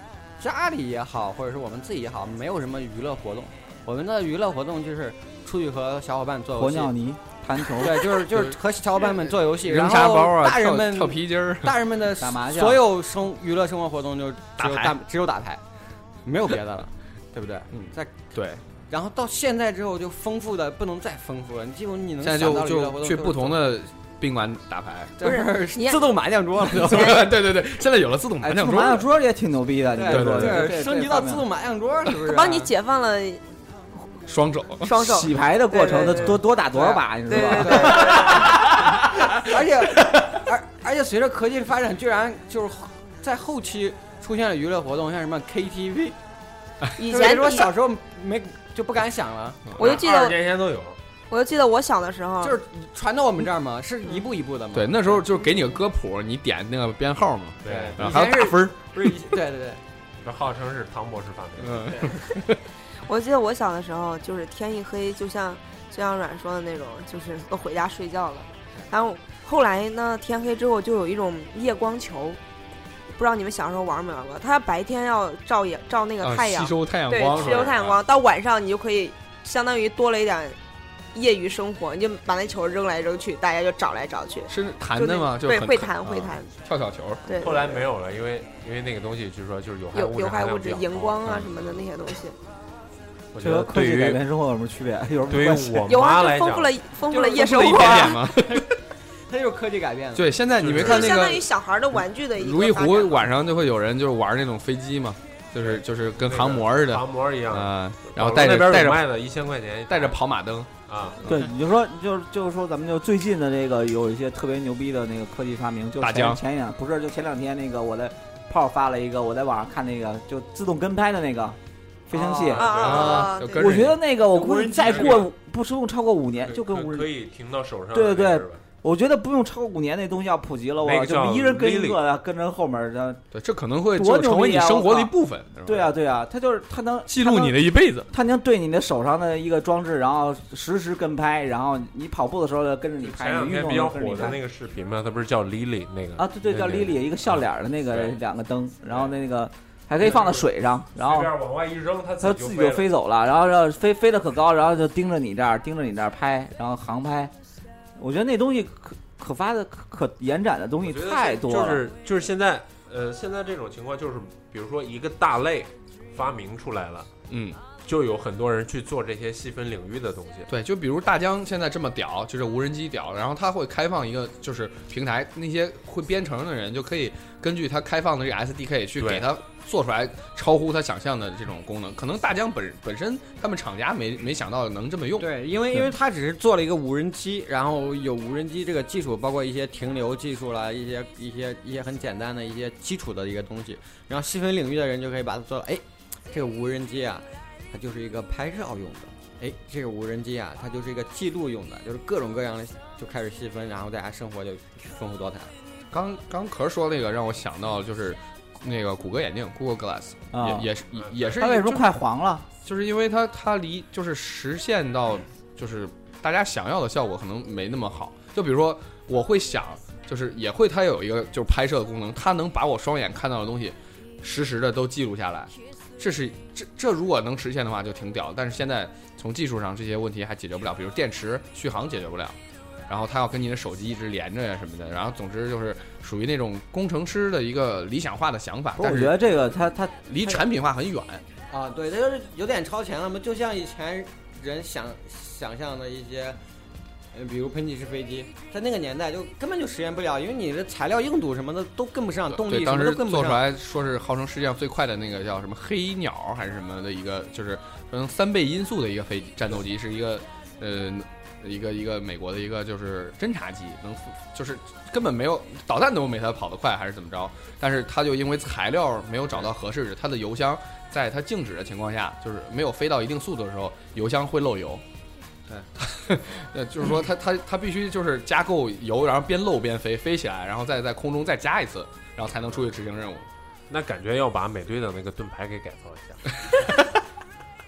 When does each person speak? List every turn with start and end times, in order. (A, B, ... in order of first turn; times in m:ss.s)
0:00.4-0:06.9 A
0:06.6-0:08.2 B
0:07.7-0:15.6 A
0:08.3-0:08.5 C
0:09.2-0:11.8 C
0:12.2-0:12.8 B
0:14.6-0:15.0 C
0:16.2-0:18.3 A
0:17.7-0:18.6 C
0:18.9-0:23.7 A
0:22.2-0:25.1 C
0:25.2-0:27.3 A
0:25.2-0:26.0 D
0:26.7-0:29.0 C
0:26.7-0:27.3 D
0:28.4-0:31.4 B
0:29.9-0:32.7 A
0:30.1-0:30.7 C
0:32.2-0:33.4 D
0:34.2-0:35.0 C
0:34.8-0:36.4 D
0:34.9-0:39.0 B
0:36.7-0:46.2 A
0:37.3-0:38.6 D
0:47.0-0:47.7 D
0:47.0-0:49.7 A
0:49.8-0:50.4 D
0:49.8-0:51.0 E
0:51.3-0:52.6 D
0:52.4-0:55.2 A
0:54.7-0:58.7 C
0:57.6-0:58.1 E
0:57.6-0:59.8 A
1:00.2-1:02.1 E
1:01.6-1:02.6 C
1:03.0-1:12.4 D
1:13.1-1:20.6 D
1:16.2-1:18.0 C
1:17.3-1:17.9 E
1:21.1-1:26.5 D
1:24.5-1:27.5 C
1:27.2-1:27.8 D
1:27.4-1:31.2 E
1:29.9-1:32.4 D
1:31.2-1:31.5 C
1:33.3-1:34.2 E
1:33.4-1:35.9 B
1:35.3-1:36.8 E
1:35.9-1:38.3 D
1:37.1-1:38.7 A
1:37.3-1:38.7 C
1:39.3-1:40.3 A
1:40.1-1:41.5 C
1:40.6-1:41.2 E
1:40.8-1:43.2 D
1:42.3-1:49.1 C
1:45.6-1:50.2 E
1:49.9-1:50.7 C
1:50.9-1:51.2 E
1:51.2-2:01.6 B
1:56.0-1:56.4 C
2:02.1-2:02.7 B
2:02.1-2:03.0 A
2:02.5-2:03.3 E
2:02.6-2:03.7 D
2:02.8-2:04.1 C
2:03.5-2:07.1 B
2:04.2-2:05.3 A
2:04.8-2:05.2 E
2:06.4-2:08.6 E
2:07.9-2:13.2 B
2:10.8-2:12.0 E
2:13.3-2:15.9 C
2:13.9-2:15.1 B
2:15.6-2:17.6 B
2:17.1-2:18.1 C
2:18.1-2:24.4 B
2:23.0-2:28.1 E
2:26.2-2:31.3 B
2:30.0-2:30.4 E
2:31.0-2:32.8 E
2:32.2-2:37.3 B
2:38.0-2:41.8 B
2:40.8-2:47.1 E
2:47.3-2:47.6 C
2:47.8-2:50.5 E
2:50.5-3:05.3 C
2:59.0-2:59.3 E
3:05.2-3:25.5 A
3:25.9-3:31.9 C
3:30.3-3:30.7 B
3:30.9-3:31.4 E
3:31.4-3:32.4 B
3:32.6-3:52.4 C
3:52.9-3:59.2 C
3:58.8-4:00.4 B
4:00.0-4:01.2 C
4:01.5-4:06.4 A
4:07.1-4:13.4 A
4:12.3-4:34.8 C
4:35.8-4:43.3 C
4:43.7-4:46.4 E
4:46.5-4:46.8 C